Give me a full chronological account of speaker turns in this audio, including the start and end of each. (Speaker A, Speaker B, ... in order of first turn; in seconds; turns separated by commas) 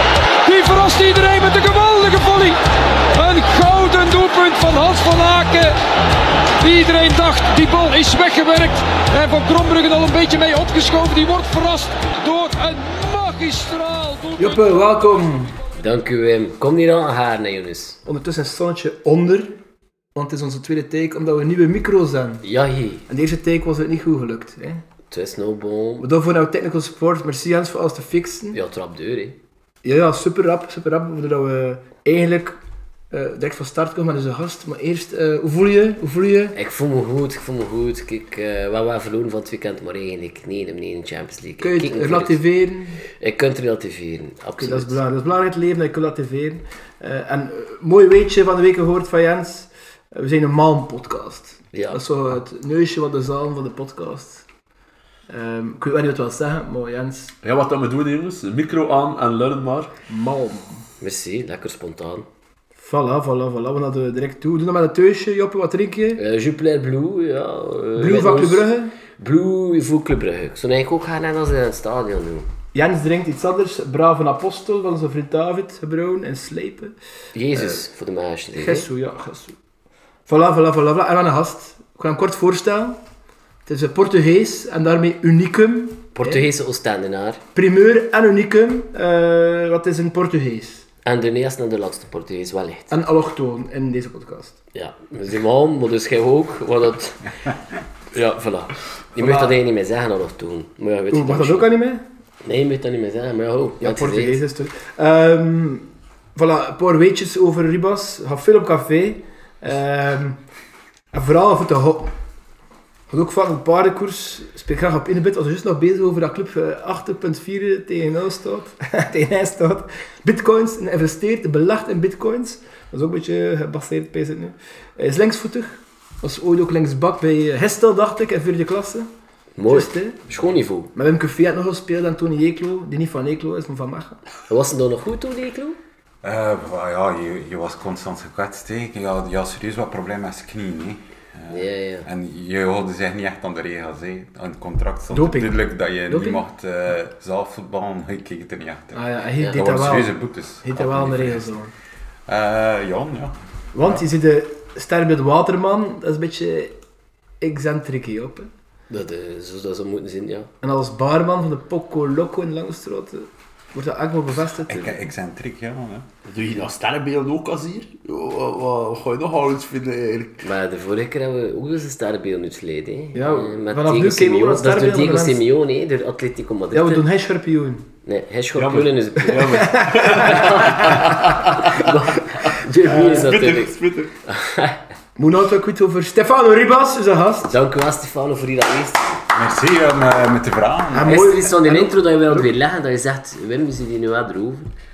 Speaker A: 0.5-2.6, Speaker A: 3.1-5.7, Speaker A: 6.6-14.8, Speaker B: 14.4-15.6, Speaker C: 15.8-18.0, Speaker B: 18.1-19.6, Speaker B: 20.1-22.4, Speaker C: 22.4-23.1, Speaker B: 23.1-24.8, Speaker C: 25.1-26.1, Speaker B: 26.0-28.6, Speaker C: 28.5-29.4, Speaker B: 29.8-32.6, Speaker B: 33.1-36.6, Speaker C: 36.5-42.4, Speaker B: 41.6-43.0, Speaker C: 43.2-45.0, Speaker B: 44.6-54.5, Speaker C: 51.7-52.0, Speaker B: 55.3-57.4, Speaker D: 57.4-59.9, Speaker B: 60.1-60.9, Speaker C: 61.0-62.3, Speaker B: 62.8-66.2, Speaker C: 66.2-72.5, Speaker B: 68.0-68.9, Speaker B: 72.7-76.9, Speaker C: 77.3-78.9, Speaker B: 77.5-77.8, Speaker B: 78.6-79.6, Speaker B: 80.3-83.0, Speaker B: 83.7-86.5, Speaker C: 86.2-87.4, Speaker B: 87.5-90.9, Speaker C: 91.0-92.9, Speaker B: 92.9-94.6, Speaker C: 94.7-97.4, Speaker C: 98.1-101.7, Speaker B: 99.2-99.5, Speaker B: 101.1-102.0, Speaker C: 102.4-104.4, Speaker B: 103.8-110.4, Speaker B: 111.1-112.1, Speaker B: 113.1-129.1, Speaker C: 129.6-130.9, Speaker B: 129.7-130.2, Speaker B: 130.9-134.2, Speaker C: 134.5-135.8, Speaker E: 136.2-151.5, Speaker C: 141.5-142.1, Speaker B: 145.1-146.4, Speaker B: 148.9-151.7, Speaker E: 152.3-154.0, Speaker B: 153.7-156.8, Speaker B: 157.4-158.5, Speaker C: 158.9-160.5, Speaker B: 160.6-165.0, Speaker E: 164.3-166.1, Speaker D: 166.3-170.4, Speaker C: 170.4-177.1, Speaker B: 173.1-175.4, Speaker B: 176.7-177.9, Speaker C: 178.0-184.8, Speaker D: 178.6-181.8, Speaker B: 179.4-180.7, Speaker D: 182.9-184.1, Speaker B: 185.2-187.5, Speaker C: 187.5-189.1, Speaker E: 189.3-191.2, Speaker B: 190.9-192.5, Speaker C: 191.0-194.7